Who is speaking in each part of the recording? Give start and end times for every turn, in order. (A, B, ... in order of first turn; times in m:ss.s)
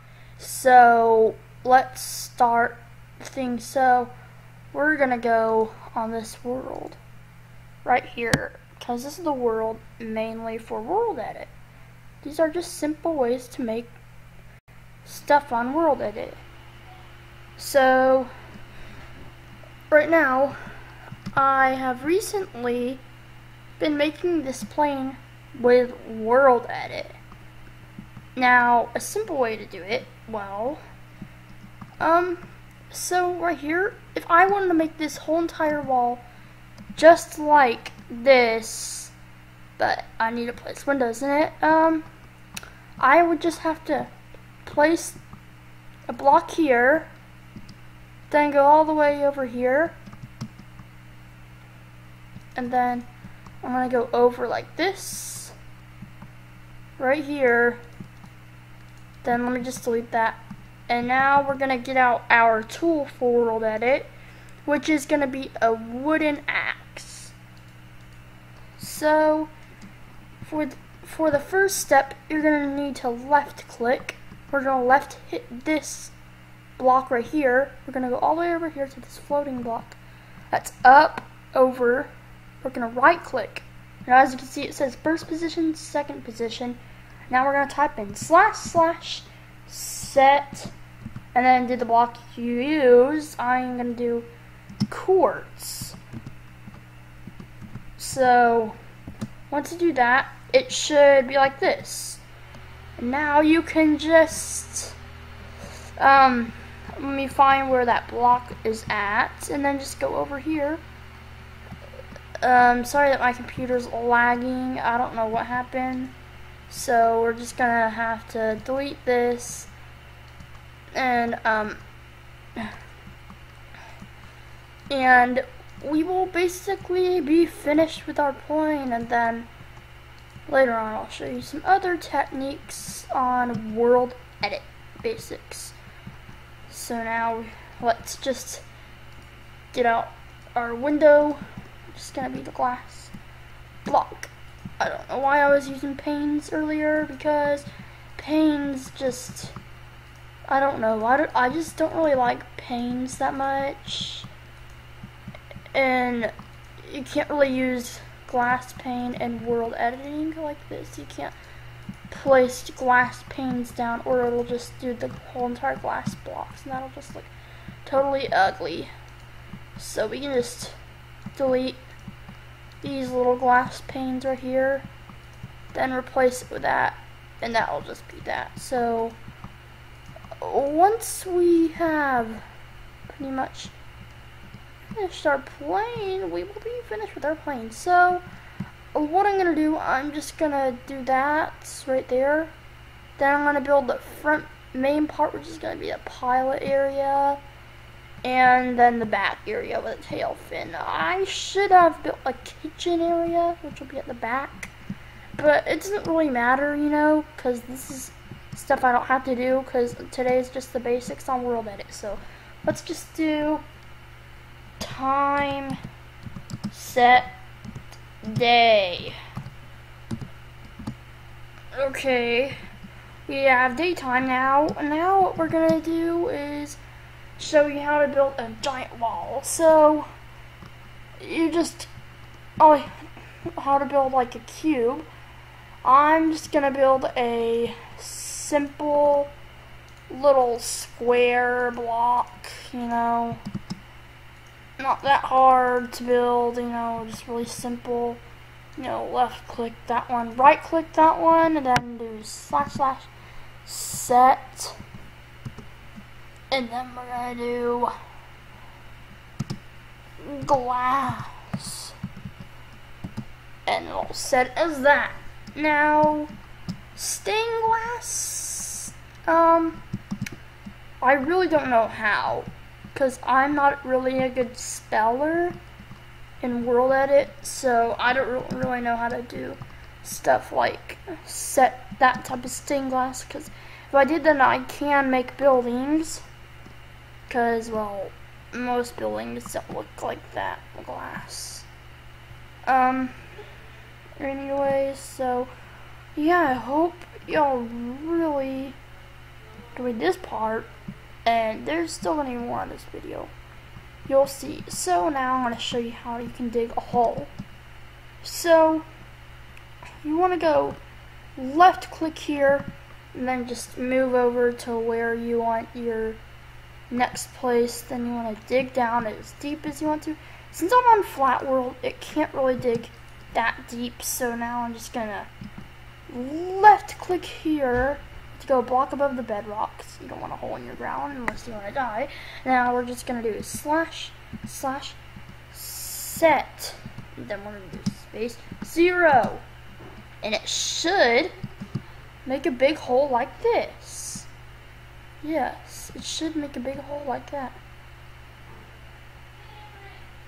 0:00.4-0:04.1 A
0:04.7-0:07.0 A
0:07.8-0:11.5 A
0:12.2-0:14.0 A
0:15.0-0:16.4 A
0:17.6-0:18.3 A
0:19.9-0:20.6 A
0:21.3-0:23.0 A
0:23.8-0:27.2 A
0:28.4-0:30.8 A
0:32.0-0:36.2 A
0:37.0-0:39.1 A
0:39.8-0:42.0 A
0:43.0-0:44.1 A
0:44.6-0:45.2 A
0:46.1-0:47.1 A
0:48.3-0:50.0 A
0:52.6-0:53.1 A
0:53.6-0:55.6 A
0:57.0-0:57.8 A
0:59.2-1:04.1 A
1:04.6-1:07.4 A
1:08.8-1:09.5 A
1:10.4-1:16.1 A
1:16.8-1:20.0 A
1:20.5-1:30.7 A
1:31.3-1:34.3 A
1:34.9-1:36.0 A
1:38.0-1:38.8 A
1:39.5-1:42.2 A
1:43.0-1:45.0 A
1:46.0-1:50.8 A
1:52.4-1:56.1 A
1:56.7-1:59.7 A
2:00.9-2:01.8 A
2:04.9-2:09.5 A
2:10.5-2:15.8 A
2:16.7-2:18.6 A
2:19.7-2:21.4 A
2:21.9-2:23.1 A
2:23.8-2:29.6 A
2:30.5-2:34.3 A
2:35.7-2:41.4 A
2:42.1-2:47.3 A
2:47.8-2:48.9 A
2:49.8-2:50.8 A
2:51.4-2:51.8 A
2:52.8-2:54.9 A
2:55.7-2:59.2 A
3:00.4-3:02.4 A
3:03.1-3:03.7 A
3:04.9-3:08.2 A
3:08.9-3:12.5 A
3:13.2-3:17.4 A
3:18.2-3:24.7 A
3:25.4-3:33.6 A
3:34.8-3:35.8 A
3:36.7-3:37.3 A
3:38.2-3:39.2 A
3:41.7-3:42.6 A
3:43.3-3:46.8 A
3:47.4-3:50.1 A
3:51.2-3:51.9 A
3:52.6-3:55.1 A
3:55.8-3:59.3 A
4:00.1-4:03.4 A
4:04.8-4:08.2 A
4:08.8-4:13.1 A
4:13.6-4:14.8 A
4:16.5-4:17.9 A
4:20.2-4:22.0 A
4:23.7-4:26.3 A
4:27.0-4:29.8 A
4:31.0-4:35.6 A
4:36.4-4:46.2 A
4:47.3-4:51.7 A
4:52.6-4:53.2 A
4:54.2-4:55.5 A
4:56.2-4:58.8 A
4:59.8-5:00.7 A
5:01.3-5:03.3 A
5:04.1-5:07.3 A
5:08.2-5:08.9 A
5:10.0-5:10.8 A
5:11.4-5:16.2 A
5:16.9-5:25.3 A
5:26.1-5:35.0 A
5:35.5-5:39.4 A
5:40.2-5:41.3 A
5:42.2-5:44.3 A
5:45.2-5:47.6 A